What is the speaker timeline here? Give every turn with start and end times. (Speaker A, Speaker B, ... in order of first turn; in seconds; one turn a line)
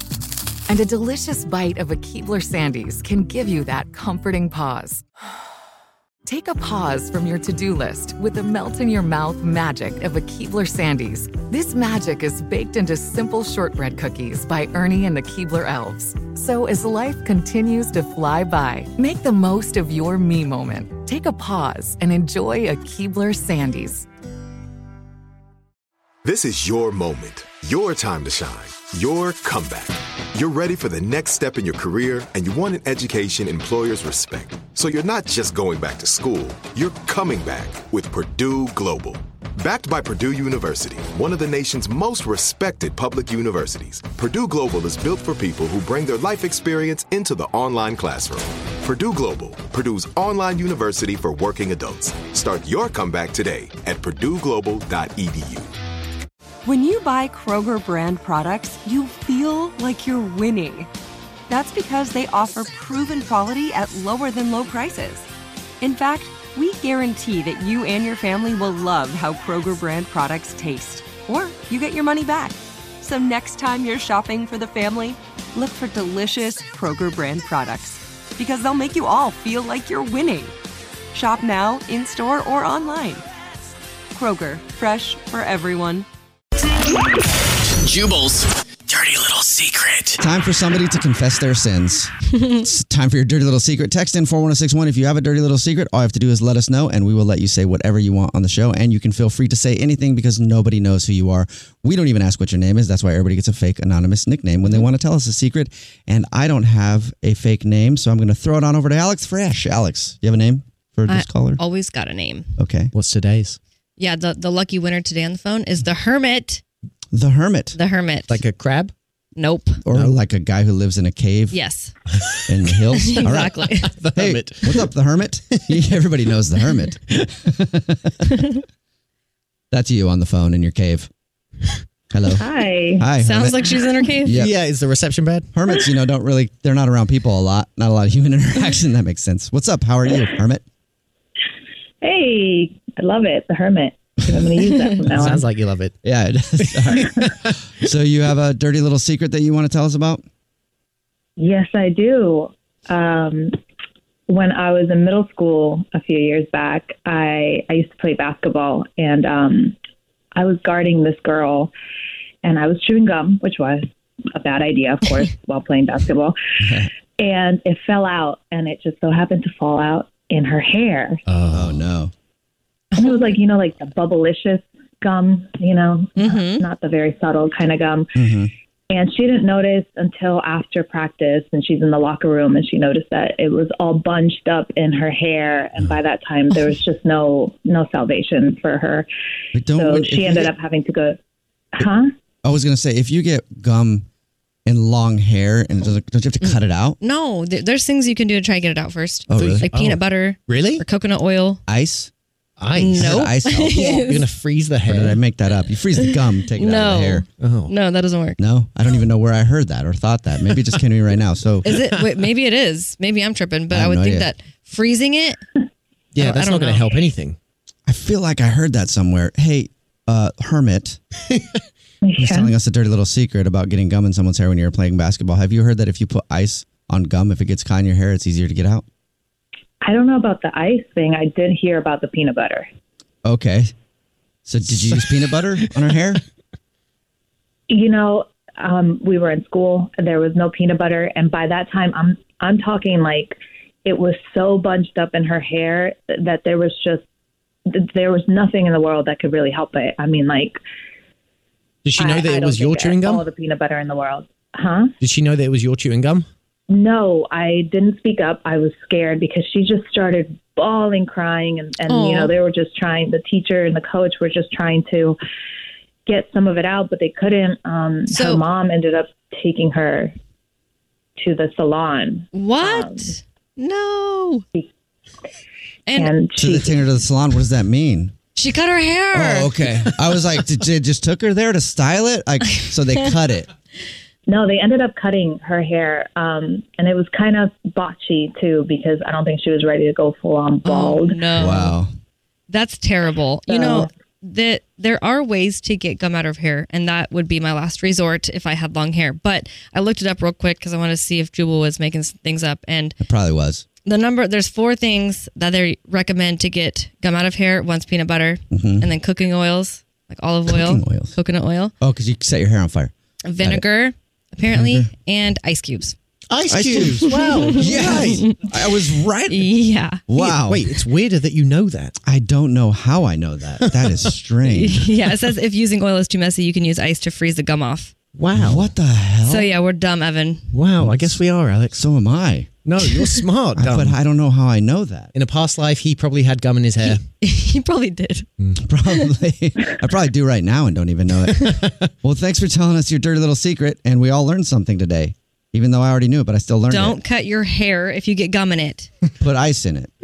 Speaker A: 0.7-5.0
Speaker A: 6.2-24.1
Speaker B: 26.2-55.7
Speaker C: 56.6-60.7
Speaker C: 61.6-65.1
Speaker C: 65.8-72.5
Speaker C: 73.1-80.5
Speaker C: 81.2-83.2
Speaker C: 84.5-86.0
Speaker D: 87.8-90.2
Speaker E: 90.2-111.6
Speaker F: 111.1-112.5
Speaker E: 112.6-112.9
Speaker G: 112.9-113.6
Speaker F: 114.0-116.6
Speaker E: 117.1-117.8
Speaker F: 117.7-118.4
Speaker G: 118.3-118.9
Speaker F: 119.3-119.8
Speaker E: 119.8-121.6
Speaker G: 119.9-120.2
Speaker F: 121.5-121.9
Speaker G: 122.3-122.8
Speaker E: 122.5-128.1
Speaker F: 123.0-123.9
Speaker G: 123.5-124.9
Speaker E: 129.7-131.1
Speaker E: 132.1-132.4
Speaker H: 132.3-133.1
Speaker E: 133.0-134.6
Speaker F: 133.1-134.4
Speaker G: 134.3-135.5
Speaker E: 135.5-140.6
Speaker H: 142.0-145.5
Speaker G: 145.1-145.9
Speaker E: 146.0-150.2
Speaker G: 146.6-147.5
Speaker H: 151.4-153.5
Speaker H: 154.3-159.7
Speaker H: 160.3-161.7
Speaker H: 162.4-163.8
Speaker H: 164.3-166.3
Speaker E: 166.6-166.9
Speaker H: 167.2-171.2
Speaker G: 171.3-171.8
Speaker E: 171.5-172.1
Speaker F: 172.9-173.4
Speaker H: 173.0-178.1
Speaker F: 176.2-176.7
Speaker E: 178.2-178.5
Speaker H: 178.9-189.1
Speaker E: 189.5-190.5
Speaker H: 189.8-191.2
Speaker H: 191.7-192.1
Speaker E: 192.4-194.0
Speaker E: 194.7-197.0
Speaker F: 197.0-201.6
Speaker E: 199.3-199.7
Speaker G: 199.3-200.8
Speaker E: 201.7-202.1
Speaker G: 202.6-205.2
Speaker F: 202.8-204.3
Speaker E: 202.9-204.0
Speaker E: 204.8-207.2
Speaker F: 206.0-208.4
Speaker G: 207.4-207.8
Speaker E: 208.4-211.7
Speaker F: 211.6-215.4
Speaker G: 211.7-212.3
Speaker E: 213.7-214.3
Speaker G: 216.1-217.4
Speaker F: 216.2-217.0
Speaker E: 217.9-221.0
Speaker H: 222.0-222.5
Speaker E: 222.2-228.8
Speaker H: 229.8-232.7
Speaker E: 233.2-233.7
Speaker E: 234.4-236.2
Speaker H: 237.7-247.0
Speaker H: 247.7-250.6
Speaker G: 251.8-253.3
Speaker H: 251.9-254.9
Speaker G: 255.0-256.3
Speaker H: 256.7-265.2
Speaker F: 261.9-262.3
Speaker H: 266.1-270.1
Speaker F: 268.1-268.4
Speaker H: 271.2-273.1
Speaker F: 272.3-274.4
Speaker F: 275.9-276.2
Speaker H: 275.9-276.7
Speaker E: 276.4-278.1
Speaker F: 278.3-279.7
Speaker E: 279.1-283.5
Speaker H: 284.3-291.4
Speaker F: 290.6-291.8
Speaker E: 291.4-291.9
Speaker F: 292.5-302.9
Speaker H: 293.5-293.8
Speaker E: 303.0-303.6
Speaker F: 303.8-311.7
Speaker E: 308.5-308.9
Speaker E: 310.5-311.1
Speaker E: 311.8-313.6
Speaker F: 313.2-315.9
Speaker E: 314.5-314.9
Speaker G: 316.3-318.2
Speaker E: 316.5-319.5
Speaker F: 317.0-318.4
Speaker F: 319.3-320.1
Speaker E: 320.1-320.9
Speaker G: 320.1-321.9
Speaker E: 322.0-324.9
Speaker G: 323.6-324.1
Speaker F: 324.4-327.9
Speaker G: 328.1-328.7
Speaker E: 328.3-329.5
Speaker F: 329.2-330.5
Speaker G: 330.5-331.9
Speaker E: 330.8-331.2
Speaker E: 331.7-332.5
Speaker G: 332.6-334.0
Speaker E: 333.6-335.1
Speaker G: 335.1-337.0
Speaker F: 336.8-338.3
Speaker G: 338.4-338.7
Speaker E: 338.6-347.0
Speaker F: 346.7-348.9
Speaker E: 349.2-349.9